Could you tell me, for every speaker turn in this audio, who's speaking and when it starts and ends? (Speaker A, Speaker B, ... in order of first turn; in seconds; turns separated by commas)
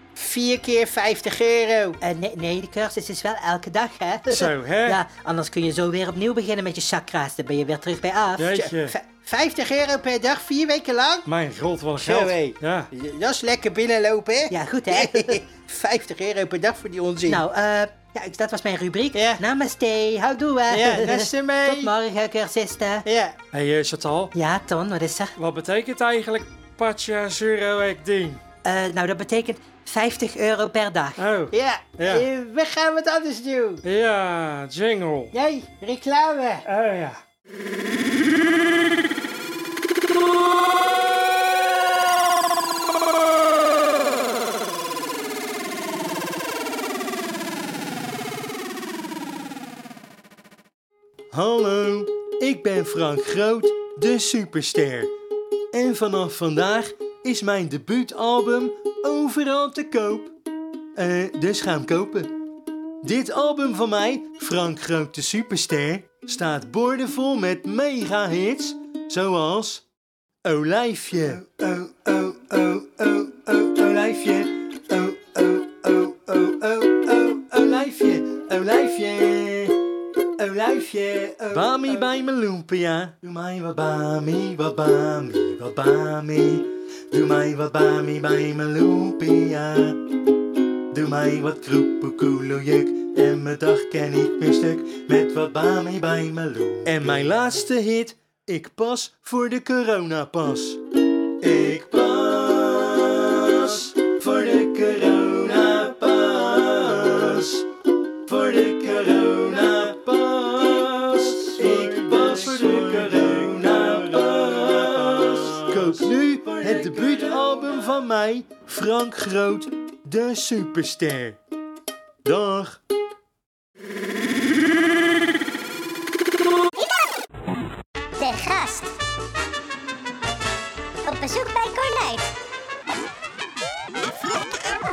Speaker A: 0.2-2.0, Speaker B: 2.0-8.6, Speaker C: 4.3-5.0, Speaker C: 8.4-8.9, Speaker A: 8.5-11.3, Speaker C: 11.3-12.9, Speaker A: 12.0-17.4, Speaker B: 14.5-15.4, Speaker B: 17.3-23.1, Speaker A: 19.1-19.4, Speaker A: 20.7-21.9, Speaker A: 23.1-23.4, Speaker C: 23.5-24.3, Speaker B: 24.3-25.3, Speaker C: 25.4-28.4, Speaker B: 28.6-31.2, Speaker C: 31.2-32.3, Speaker A: 31.5-33.8, Speaker C: 33.8-35.3, Speaker A: 35.3-36.7, Speaker C: 36.6-37.2, Speaker D: 51.4-55.0, Speaker D: 55.8-60.2, Speaker D: 61.0-62.3, Speaker D: 63.1-69.8, Speaker D: 70.5-74.3, Speaker D: 74.9-79.5, Speaker D: 81.5-81.9, Speaker C: 81.8-82.1, Speaker D: 83.3-90.0, Speaker D: 90.9-100.8, Speaker C: 97.0-97.6, Speaker D: 101.5-107.1, Speaker C: 107.0-107.5, Speaker D: 108.3-121.3, Speaker C: 111.4-117.8, Speaker D: 122.3-122.8, Speaker E: 128.2-128.9, Speaker E: 131.1-132.3